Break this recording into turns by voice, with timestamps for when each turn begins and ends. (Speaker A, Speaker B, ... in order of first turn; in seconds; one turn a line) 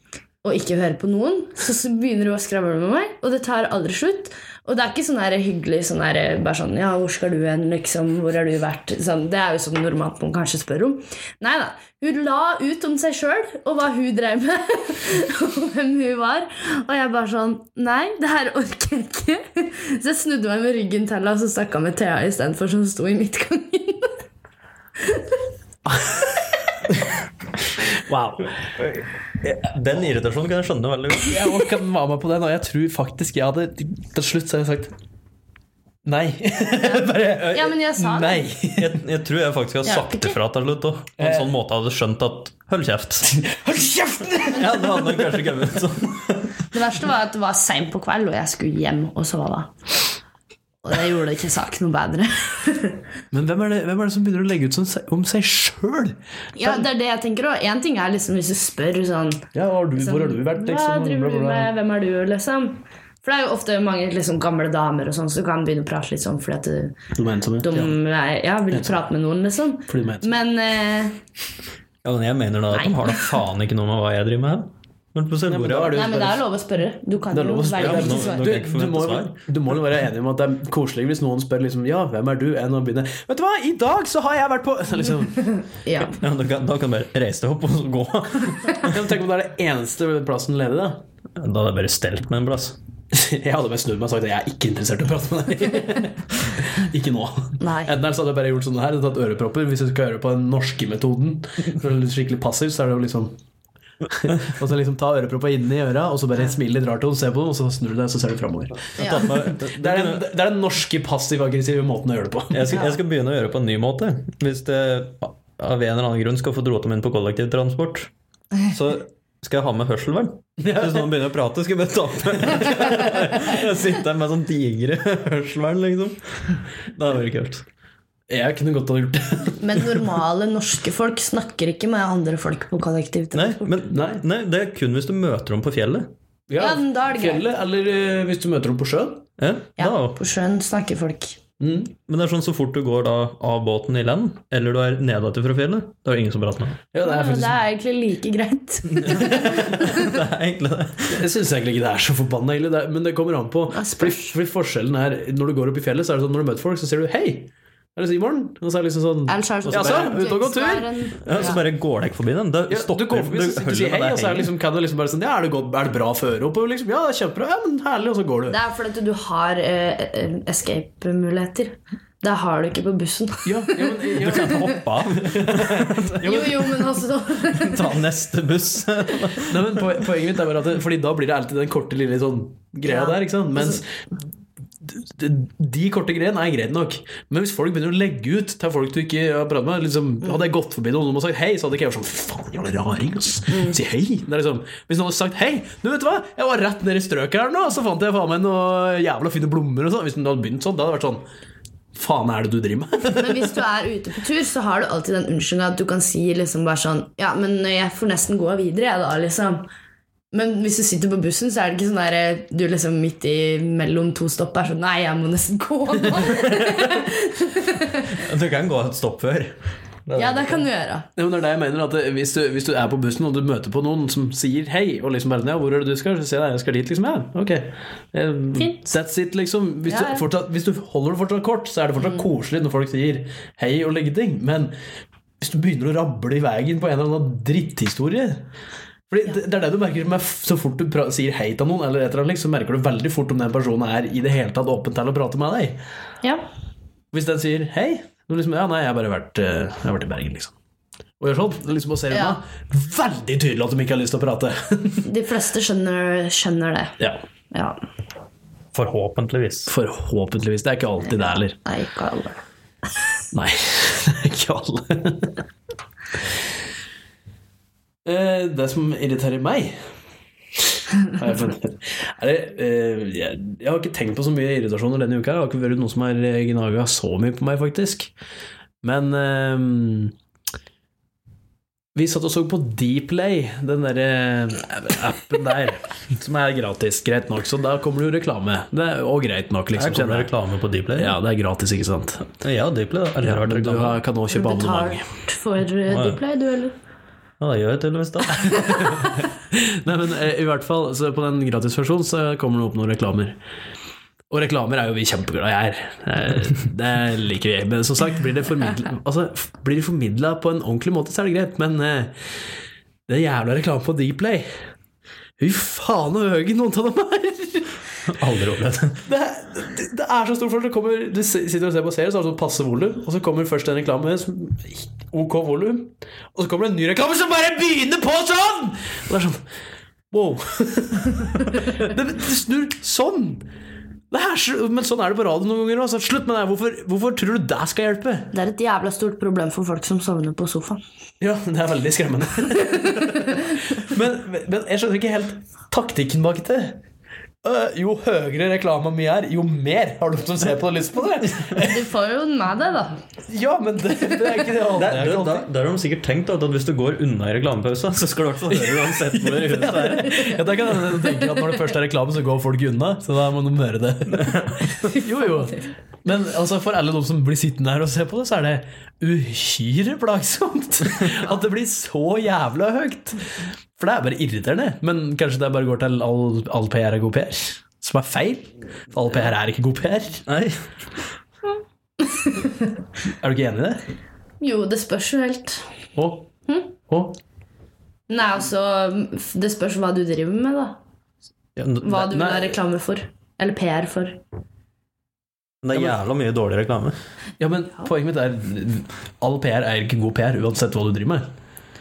Speaker A: 0.4-24.1
Speaker A: 25.0-25.3
Speaker B: 25.9-26.4
Speaker B: 27.8-28.5
Speaker C: 28.8-31.7
Speaker B: 31.3-34.9
Speaker B: 36.0-39.0
Speaker A: 36.8-38.5
Speaker C: 38.6-43.3
Speaker A: 39.8-40.4
Speaker B: 41.2-41.5
Speaker B: 43.2-45.2
Speaker C: 44.4-46.7
Speaker A: 46.7-49.7
Speaker A: 50.8-53.0
Speaker B: 53.3-56.8
Speaker A: 56.5-67.0
Speaker B: 59.5-61.7
Speaker B: 67.1-67.7
Speaker A: 67.6-71.2
Speaker B: 69.9-70.4
Speaker C: 72.0-76.1
Speaker A: 72.7-73.3
Speaker B: 75.4-76.4
Speaker A: 75.9-78.5
Speaker B: 77.3-85.5
Speaker C: 77.7-79.3
Speaker A: 85.8-86.2
Speaker C: 86.1-89.0
Speaker B: 88.7-91.0
Speaker C: 91.3-92.8
Speaker B: 93.1-103.4
Speaker A: 97.6-98.0
Speaker B: 104.1-112.9
Speaker C: 108.9-110.3
Speaker A: 109.0-109.3
Speaker C: 112.5-118.1
Speaker C: 118.6-127.6
Speaker B: 120.6-121.2
Speaker B: 128.3-129.6
Speaker A: 129.6-133.8
Speaker C: 133.3-136.1
Speaker B: 133.9-134.2
Speaker B: 136.5-139.3
Speaker A: 136.6-137.4
Speaker C: 139.4-140.2
Speaker A: 139.8-141.4
Speaker B: 141.6-141.9
Speaker C: 142.1-146.8
Speaker B: 146.9-147.6
Speaker A: 147.0-150.1
Speaker C: 148.9-151.2
Speaker B: 151.1-161.6
Speaker A: 153.7-154.3
Speaker A: 159.3-161.6
Speaker C: 159.6-160.2
Speaker C: 161.2-164.5
Speaker B: 162.7-168.6
Speaker A: 168.5-174.2
Speaker B: 173.4-176.7
Speaker C: 174.1-176.6
Speaker A: 176.2-178.0
Speaker C: 177.4-180.0
Speaker B: 179.4-183.9
Speaker A: 182.8-183.8
Speaker B: 184.8-201.2
Speaker A: 193.5-193.8
Speaker B: 201.9-203.6
Speaker A: 203.0-209.7
Speaker A: 210.3-218.2
Speaker C: 216.2-216.9
Speaker C: 218.1-220.6
Speaker A: 220.2-221.1
Speaker B: 221.2-234.7
Speaker A: 229.9-230.2
Speaker B: 235.4-238.5
Speaker B: 239.1-245.8
Speaker B: 247.1-250.5
Speaker B: 251.2-255.1
Speaker A: 252.1-252.4
Speaker A: 255.0-257.0
Speaker A: 257.5-257.8
Speaker C: 258.7-259.7
Speaker B: 259.7-261.6
Speaker A: 261.1-262.4
Speaker B: 263.3-265.4
Speaker B: 268.0-269.9
Speaker B: 270.5-278.1
Speaker B: 278.8-280.1
Speaker B: 281.9-290.3
Speaker C: 289.8-291.2
Speaker B: 290.9-292.4
Speaker C: 292.4-294.0
Speaker B: 293.2-295.0
Speaker A: 294.3-296.7
Speaker C: 295.9-296.2
Speaker C: 297.4-299.1
Speaker B: 298.4-303.4
Speaker B: 304.3-312.3
Speaker B: 313.1-314.6
Speaker B: 315.4-317.7
Speaker C: 318.1-319.0
Speaker B: 319.1-329.4
Speaker B: 330.1-333.5
Speaker B: 334.1-338.3
Speaker A: 338.3-340.8
Speaker B: 341.2-346.8
Speaker A: 342.6-343.6
Speaker B: 347.4-351.9
Speaker A: 351.6-353.0
Speaker B: 353.3-355.5
Speaker C: 354.6-360.4
Speaker B: 358.5-380.2
Speaker C: 364.1-364.9
Speaker C: 380.3-380.7
Speaker A: 382.0-382.7
Speaker B: 383.2-383.8
Speaker A: 384.4-385.6
Speaker B: 385.9-386.3
Speaker B: 386.9-387.2
Speaker A: 388.1-390.8
Speaker C: 391.6-392.1
Speaker A: 391.8-394.2
Speaker B: 392.1-392.6
Speaker C: 395.6-397.0
Speaker B: 397.4-401.3